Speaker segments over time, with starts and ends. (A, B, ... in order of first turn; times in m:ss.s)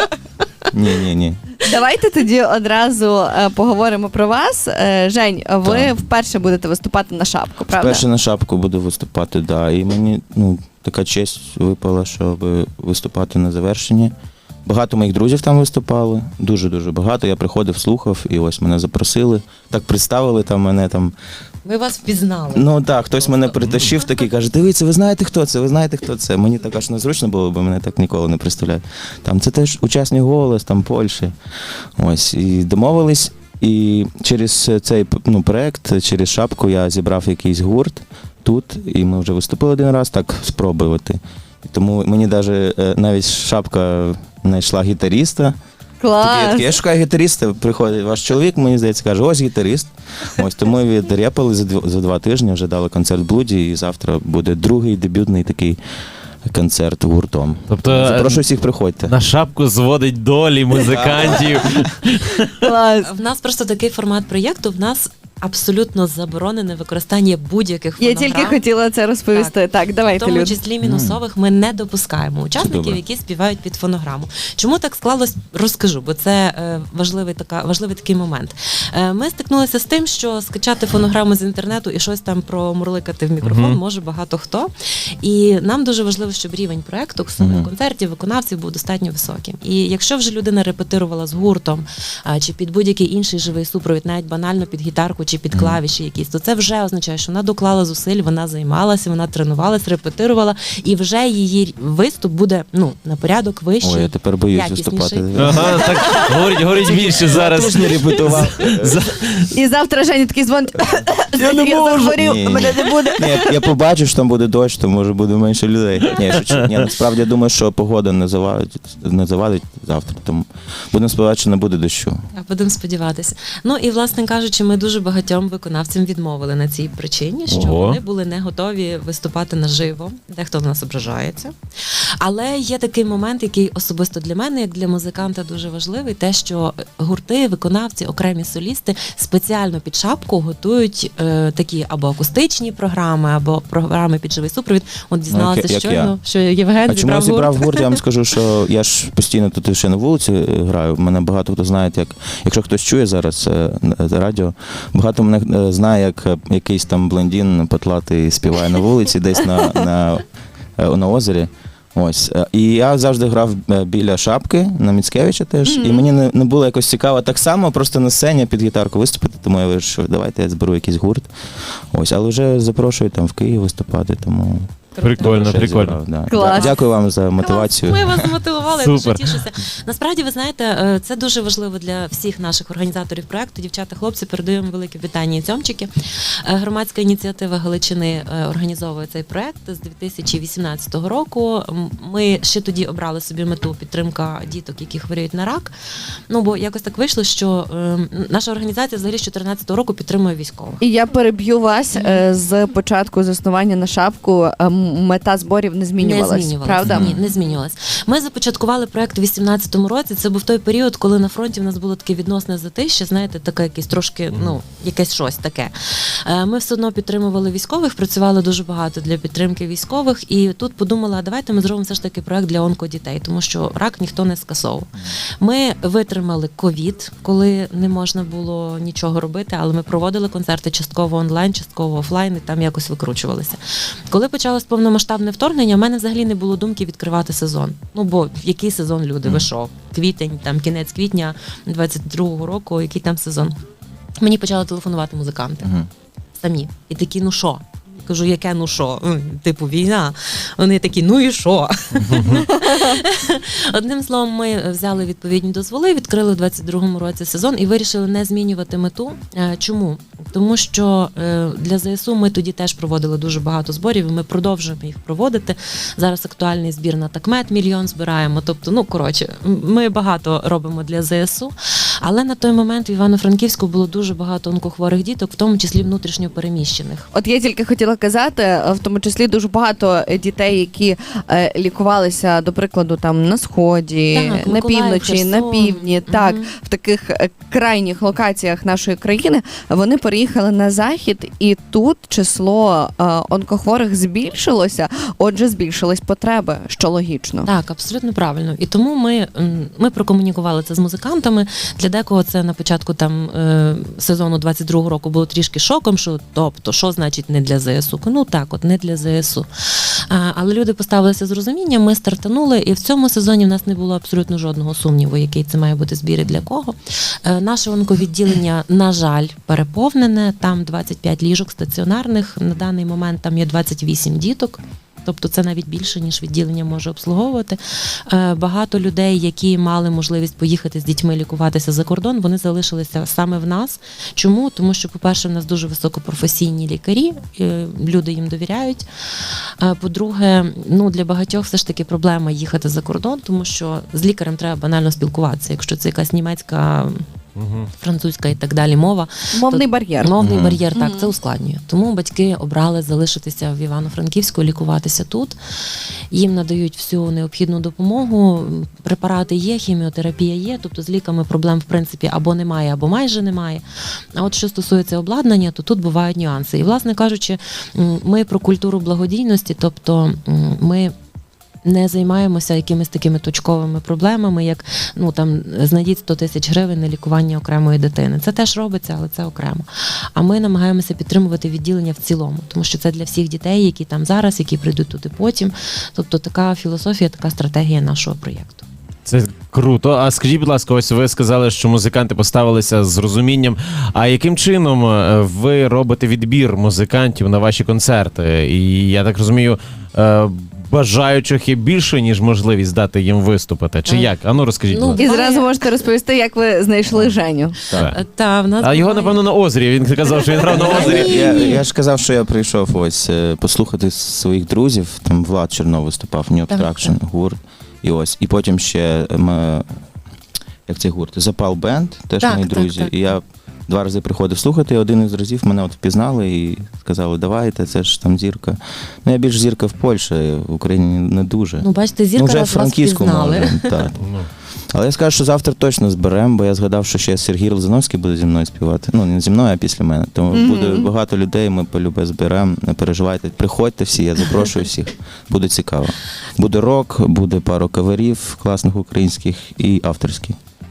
0:00.7-0:01.5 A
0:01.6-0:08.0 B
0:05.6-0:05.9 A
0:07.7-0:14.1 A
0:14.6-0:21.1 A
0:21.6-0:23.5 C
0:22.5-0:31.3 A
0:23.6-0:23.9 D
0:32.0-0:45.6 A
0:46.0-0:46.7 B
0:46.2-0:55.8 A
0:56.4-0:59.1 A
0:57.7-0:58.4 D
0:59.1-1:02.6 D
1:00.7-1:01.9 A
1:02.6-1:03.1 B
1:03.0-1:08.6 C
1:08.0-1:10.6 B
1:10.1-1:45.6 C
1:10.8-1:11.2 A
1:12.6-1:13.0 A
1:23.4-1:23.8 D
1:27.4-1:27.7 A
1:35.5-1:35.8 A
1:43.8-1:46.2 A
1:45.4-1:49.5 D
1:45.6-1:46.3 B
1:46.8-1:47.9 B
1:46.9-1:49.0 A
1:49.5-1:53.5 B
1:51.4-1:53.1 D
1:52.1-2:02.2 A
2:02.3-2:11.5 C
2:07.5-2:08.0 D
2:12.2-2:28.0 C
2:25.3-2:26.1 A
2:26.9-2:40.2 A
2:40.8-2:58.3 A
2:45.6-2:46.0 B
2:54.9-2:55.6 C
2:55.0-2:56.0 D
2:56.3-2:56.8 B
2:56.3-2:56.8 C
2:57.4-3:05.9 C
2:58.8-2:59.4 D
3:06.4-3:15.7 C
3:16.3-3:20.8 C
3:20.8-3:27.1 B
3:21.9-3:22.2 C
3:26.0-4:03.6 C
3:26.8-3:27.2 A
4:04.2-4:05.7 C
4:05.6-4:05.9 A
4:06.4-4:37.1 C
4:12.1-4:12.4 D
4:12.4-4:13.0 B
4:37.1-4:57.5 B
4:44.1-4:46.5 C
4:57.4-5:47.0 C
5:47.4-5:47.7 D
5:47.7-5:55.3 C
5:49.3-5:50.1 B
5:50.2-5:50.6 A
5:50.7-5:51.1 B
5:56.1-6:03.6 C
6:04.2-6:10.9 C
6:11.6-6:28.6 C
6:29.1-6:45.0 D
6:43.9-6:44.2 C
6:44.7-6:45.5 C
6:45.0-6:47.5 B
6:47.8-6:49.2 C
6:48.6-6:51.2 D
6:50.3-6:51.6 C
6:50.5-6:59.7 A
6:56.5-6:56.9 C
7:00.7-7:14.0 A
7:02.2-7:02.9 C
7:11.6-7:13.8 C
7:14.0-7:14.3 D
7:14.7-7:30.4 A
7:20.3-7:20.9 B